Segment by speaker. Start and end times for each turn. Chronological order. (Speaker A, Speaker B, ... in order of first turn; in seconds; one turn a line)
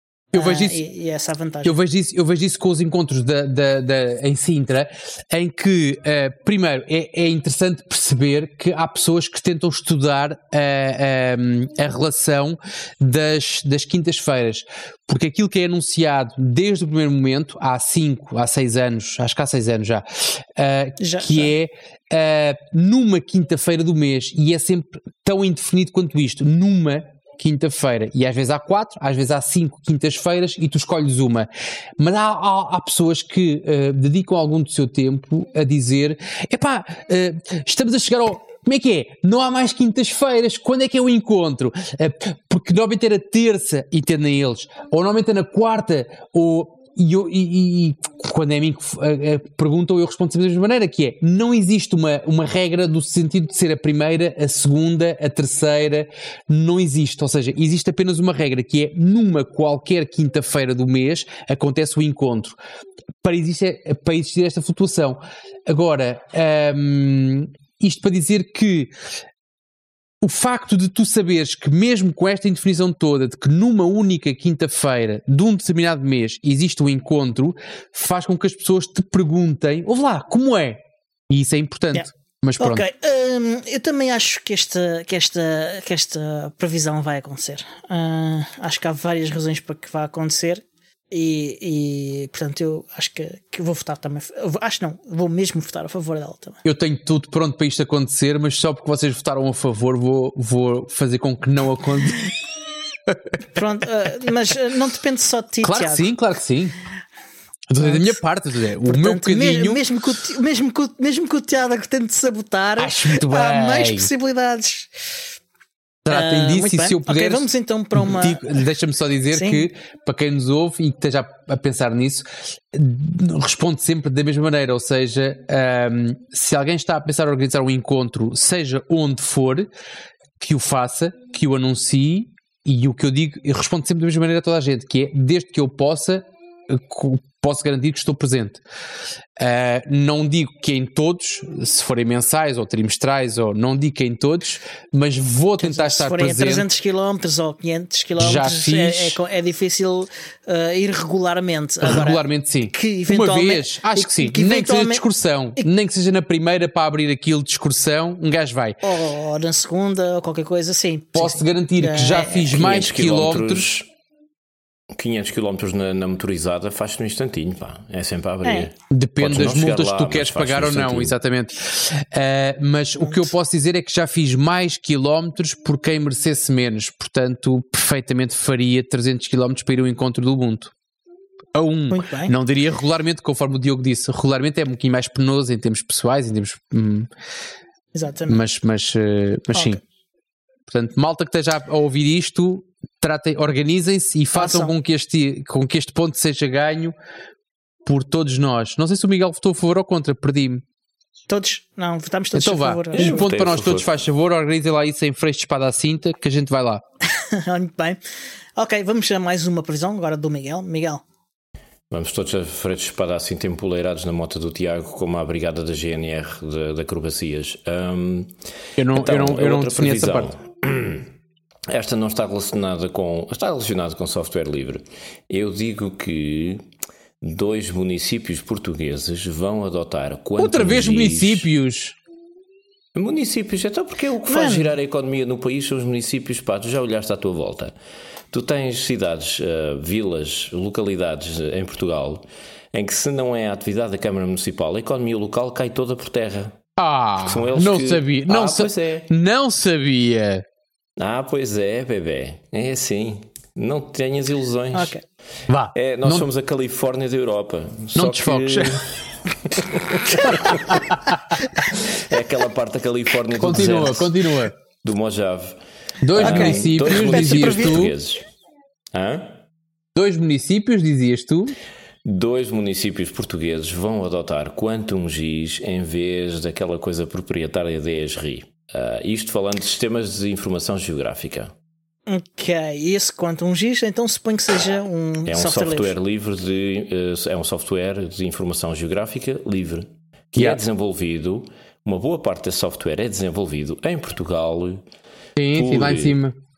Speaker A: 0.3-0.8
Speaker B: 0.3-1.8
Speaker A: 1.6-62.6
Speaker B: 21.0-21.5
Speaker A: 63.2-68.9
Speaker A: 70.2-82.8
Speaker B: 82.6-96.6
Speaker A: 96.6-102.3
Speaker B: 103.5-106.1
Speaker A: 105.6-106.8
Speaker A: 107.7-109.8
Speaker B: 107.8-108.2
Speaker B: 108.8-114.9
Speaker A: 112.8-114.1
Speaker A: 116.0-129.7
Speaker B: 116.1-118.5
Speaker B: 119.3-119.7
Speaker A: 130.4-138.6
Speaker A: 139.4-146.7
Speaker B: 145.6-155.1
Speaker A: 148.2-149.2
Speaker A: 151.8-158.8
Speaker B: 158.8-162.5
Speaker A: 161.1-163.7
Speaker C: 162.4-163.9
Speaker C: 164.9-171.1
Speaker B: 168.4-168.7
Speaker A: 168.9-180.7
Speaker B: 173.0-173.3
Speaker A: 181.5-187.1
Speaker B: 181.9-182.3
Speaker B: 187.9-188.4
Speaker A: 188.3-189.8
Speaker B: 189.5-189.8
Speaker A: 190.7-196.9
Speaker B: 194.3-194.7
Speaker A: 197.8-200.6
Speaker B: 201.3-203.2
Speaker A: 202.3-206.8
Speaker C: 202.9-203.9
Speaker B: 207.2-208.0
Speaker B: 208.6-211.0
Speaker C: 211.9-218.3
Speaker A: 218.8-220.3
Speaker C: 218.9-221.1
Speaker C: 221.7-226.6
Speaker C: 227.2-231.5
Speaker A: 230.4-231.9
Speaker C: 232.9-237.7
Speaker B: 234.2-234.7
Speaker C: 238.3-246.6
Speaker A: 246.8-250.4
Speaker C: 247.2-249.1
Speaker C: 251.0-254.9
Speaker B: 254.7-255.0
Speaker A: 255.5-256.3
Speaker C: 255.7-260.8
Speaker A: 257.9-258.8
Speaker B: 260.1-260.6
Speaker A: 260.3-261.2
Speaker C: 261.7-264.2
Speaker A: 263.3-264.6
Speaker C: 264.8-265.6
Speaker A: 266.0-267.9
Speaker C: 266.1-268.2
Speaker B: 266.2-267.8
Speaker C: 268.9-269.4
Speaker A: 269.9-271.6
Speaker C: 272.1-281.5
Speaker B: 282.1-285.9
Speaker C: 285.3-294.8
Speaker A: 295.4-296.3
Speaker C: 295.5-296.2